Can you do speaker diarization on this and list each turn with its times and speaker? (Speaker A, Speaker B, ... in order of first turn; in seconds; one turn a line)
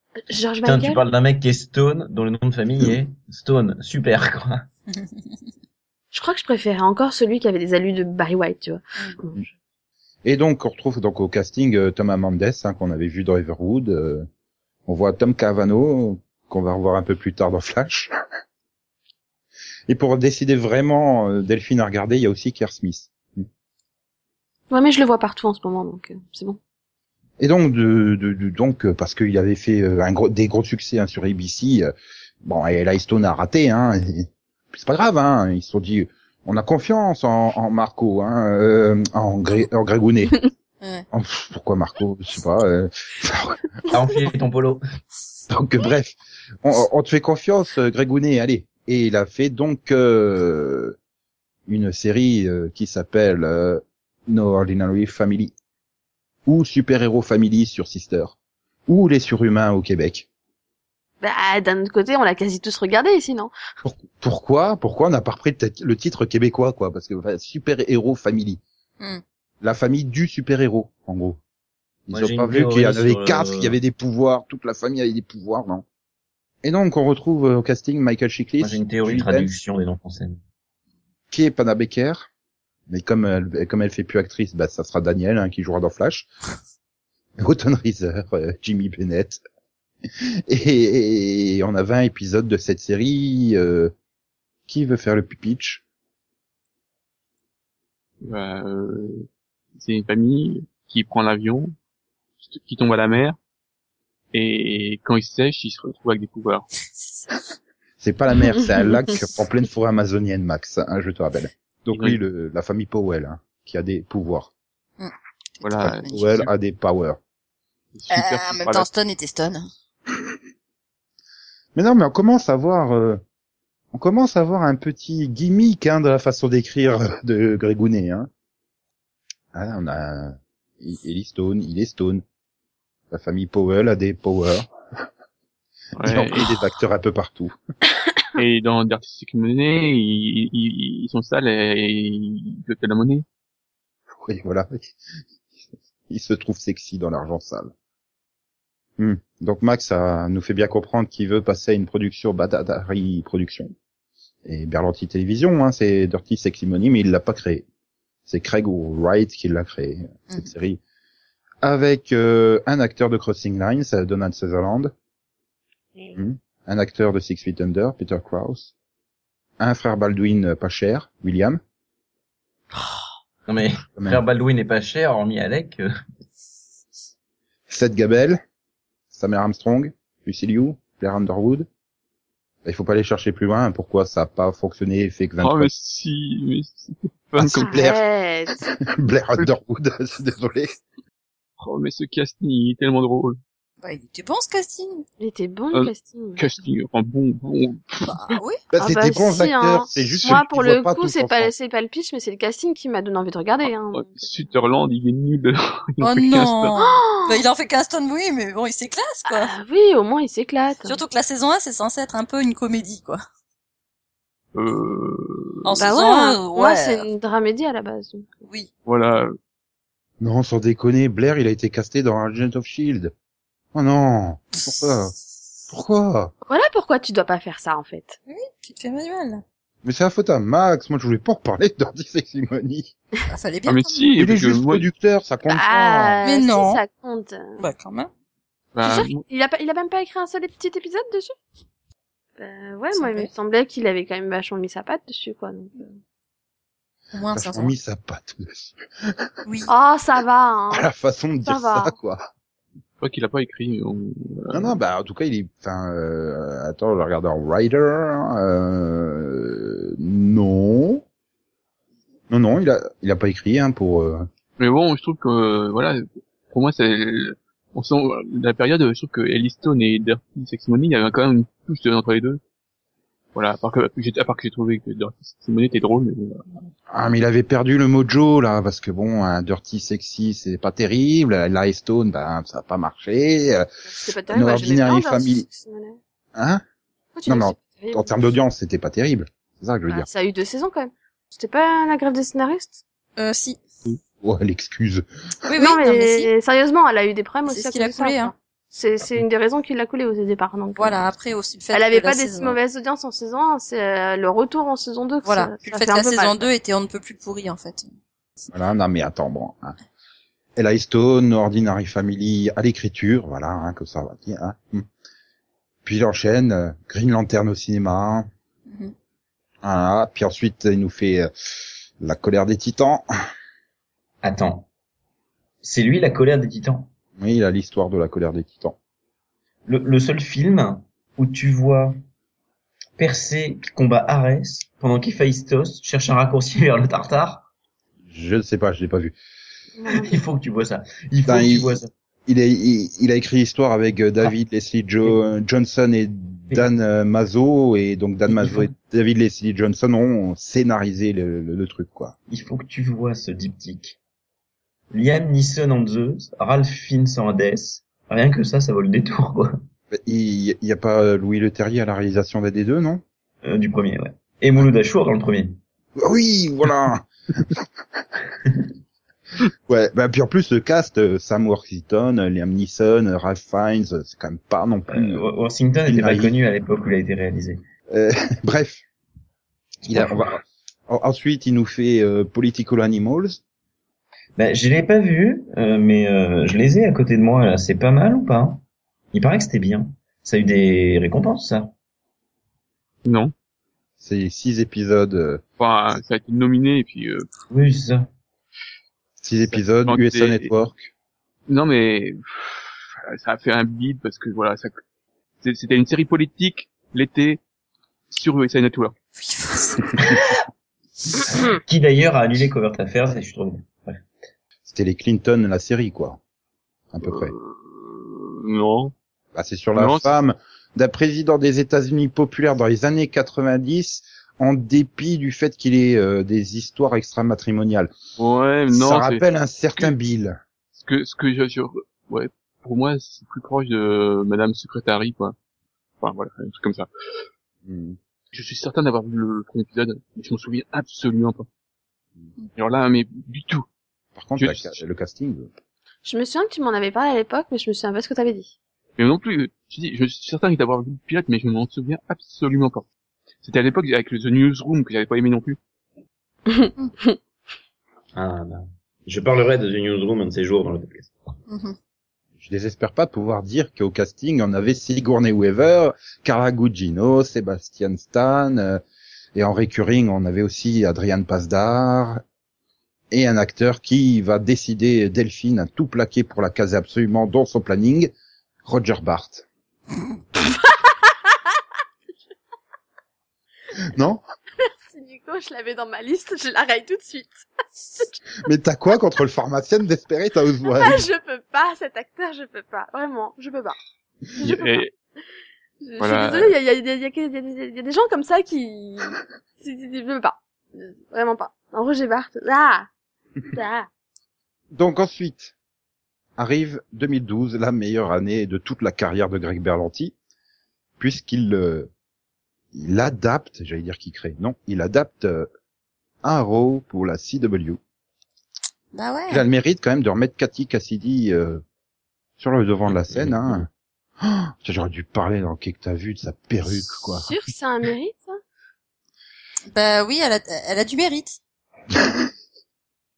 Speaker A: 0.3-1.0
Speaker B: 0.6-4.6
Speaker A: 6.1-9.5
Speaker C: 10.2-14.3
Speaker C: 14.8-18.1
Speaker C: 19.9-23.4
Speaker A: 24.7-26.6
Speaker C: 27.4-31.9
Speaker C: 32.4-40.4
Speaker D: 40.8-41.0
Speaker C: 41.1-43.6
Speaker B: 43.9-44.8
Speaker C: 45.5-51.0
Speaker C: 51.7-55.5
Speaker C: 56.5-58.4
Speaker C: 58.9-60.2
Speaker A: 61.2-63.5
Speaker C: 63.8-68.6
Speaker C: 69.6-71.4
Speaker C: 72.1-75.8
Speaker B: 72.1-73.8
Speaker C: 76.6-79.5
Speaker B: 78.6-80.4
Speaker C: 81.3-82.3
Speaker C: 82.9-86.3
Speaker C: 87.4-89.4
Speaker C: 90.5-93.9
Speaker C: 94.7-95.8
Speaker E: 98.2-101.7
Speaker E: 102.4-103.4
Speaker E: 104.3-106.7
Speaker C: 108.0-114.5
Speaker E: 111.9-112.2
Speaker D: 115.0-116.2
Speaker E: 115.6-116.5
Speaker C: 116.0-117.2
Speaker E: 117.9-118.9
Speaker D: 118.1-119.7
Speaker C: 121.7-123.2
Speaker C: 123.9-128.3
Speaker C: 129.5-132.2
Speaker C: 133.1-134.7
Speaker E: 136.0-136.6
Speaker C: 136.0-137.5
Speaker E: 138.3-143.2
Speaker C: 144.2-144.9
Speaker C: 146.1-147.7
Speaker C: 149.0-153.7
Speaker C: 154.4-157.6
Speaker C: 158.2-160.8
Speaker C: 161.6-164.9
Speaker C: 166.1-168.7
Speaker C: 169.6-171.6
Speaker B: 173.5-175.9
Speaker C: 174.0-174.2
Speaker C: 177.7-178.4
Speaker C: 179.1-181.7
Speaker C: 182.6-185.7
Speaker E: 185.4-187.8
Speaker C: 187.4-188.0
Speaker A: 187.6-188.7
Speaker C: 188.8-190.7
Speaker E: 191.6-193.4
Speaker D: 193.8-195.0
Speaker A: 195.2-196.5
Speaker E: 195.7-198.4
Speaker D: 198.1-198.6
Speaker C: 198.7-201.5
Speaker A: 198.8-204.5
Speaker E: 203.9-206.7
Speaker D: 206.0-209.5
Speaker A: 206.8-207.4
Speaker A: 209.3-211.0
Speaker D: 210.8-213.2
Speaker E: 214.5-215.7
Speaker D: 215.7-217.1
Speaker A: 215.8-218.3
Speaker E: 218.8-219.3
Speaker C: 220.2-223.1
Speaker C: 223.7-225.1
Speaker C: 225.7-226.3
Speaker A: 226.5-228.2
Speaker D: 228.3-229.4
Speaker C: 229.8-232.9
Speaker D: 233.3-234.1
Speaker E: 233.7-234.9
Speaker C: 234.2-236.2
Speaker A: 235.5-237.6
Speaker D: 236.2-236.8
Speaker D: 237.6-238.1
Speaker E: 238.7-239.2
Speaker A: 238.8-241.3
Speaker A: 242.4-245.9
Speaker D: 242.9-243.3
Speaker D: 247.1-247.7
Speaker C: 247.3-249.3
Speaker D: 249.4-249.7
Speaker A: 249.7-250.9
Speaker C: 250.7-252.3
Speaker A: 251.4-251.9
Speaker E: 253.0-254.7
Speaker C: 254.5-261.0
Speaker C: 262.3-264.3
Speaker E: 264.6-272.4
Speaker E: 273.3-276.4
Speaker C: 276.9-283.7
Speaker A: 283.8-286.0
Speaker C: 284.3-285.5
Speaker C: 286.3-286.6
Speaker A: 287.1-288.1
Speaker C: 287.2-290.1
Speaker A: 289.9-292.8
Speaker D: 293.2-293.6
Speaker C: 294.2-295.0
Speaker D: 295.4-296.3
Speaker A: 295.6-301.0
Speaker D: 297.5-298.3
Speaker D: 300.8-302.6
Speaker A: 301.7-306.4
Speaker D: 305.2-307.9
Speaker C: 308.5-309.8
Speaker C: 310.6-314.9
Speaker C: 315.8-318.3
Speaker D: 318.7-318.9
Speaker C: 319.6-321.3
Speaker C: 322.0-323.1
Speaker B: 324.2-324.7
Speaker B: 325.6-326.9
Speaker C: 327.2-328.8
Speaker B: 329.6-331.9
Speaker B: 333.0-337.5
Speaker C: 338.1-339.1
Speaker A: 339.8-340.1
Speaker B: 339.9-341.9
Speaker C: 341.2-352.1
Speaker B: 348.3-348.7
Speaker B: 352.3-354.0
Speaker B: 354.9-359.6
Speaker C: 359.9-363.0
Speaker B: 363.4-365.6
Speaker C: 366.0-367.6
Speaker C: 369.7-375.2
Speaker B: 374.9-377.6
Speaker C: 375.9-376.4
Speaker C: 377.9-378.8
Speaker C: 379.9-383.4
Speaker B: 379.9-380.2
Speaker B: 384.4-388.6
Speaker B: 389.1-391.7
Speaker E: 393.0-393.3
Speaker C: 394.0-395.4
Speaker E: 395.6-397.3
Speaker B: 397.5-398.1
Speaker C: 399.2-400.9
Speaker E: 399.5-400.5
Speaker E: 401.5-404.8
Speaker E: 405.4-407.4
Speaker E: 408.1-408.9
Speaker D: 409.1-410.3
Speaker B: 411.3-414.1
Speaker C: 414.6-416.2
Speaker C: 416.9-417.3
Speaker E: 417.0-418.9
Speaker C: 419.3-427.9
Speaker E: 419.8-420.1
Speaker E: 428.2-429.2
Speaker C: 428.7-430.4
Speaker E: 430.7-435.3
Speaker E: 436.0-436.9
Speaker C: 437.6-438.0
Speaker E: 438.3-441.5
Speaker E: 442.6-443.6
Speaker C: 444.1-445.5
Speaker E: 444.4-444.8
Speaker A: 446.0-448.5
Speaker E: 449.0-452.9
Speaker E: 453.4-455.6
Speaker A: 456.5-457.2
Speaker B: 458.1-461.1
Speaker D: 461.5-461.8
Speaker C: 462.4-468.8
Speaker C: 469.3-472.2
Speaker C: 473.1-478.1
Speaker C: 478.6-479.4
Speaker A: 481.1-481.3
Speaker C: 483.9-484.2
Speaker A: 484.6-487.4
Speaker C: 488.4-491.1
Speaker A: 490.7-493.8
Speaker A: 494.4-494.9
Speaker E: 494.4-494.9
Speaker A: 495.8-502.9
Speaker E: 496.0-496.5
Speaker A: 503.5-503.9
Speaker C: 504.7-505.5
Speaker C: 506.4-510.1
Speaker C: 511.0-511.9
Speaker C: 512.7-515.5
Speaker C: 516.2-517.8
Speaker D: 518.9-519.5
Speaker C: 519.3-521.6
Speaker C: 522.4-523.7
Speaker C: 524.2-527.3
Speaker A: 527.2-528.4
Speaker D: 529.7-531.4
Speaker C: 531.9-532.2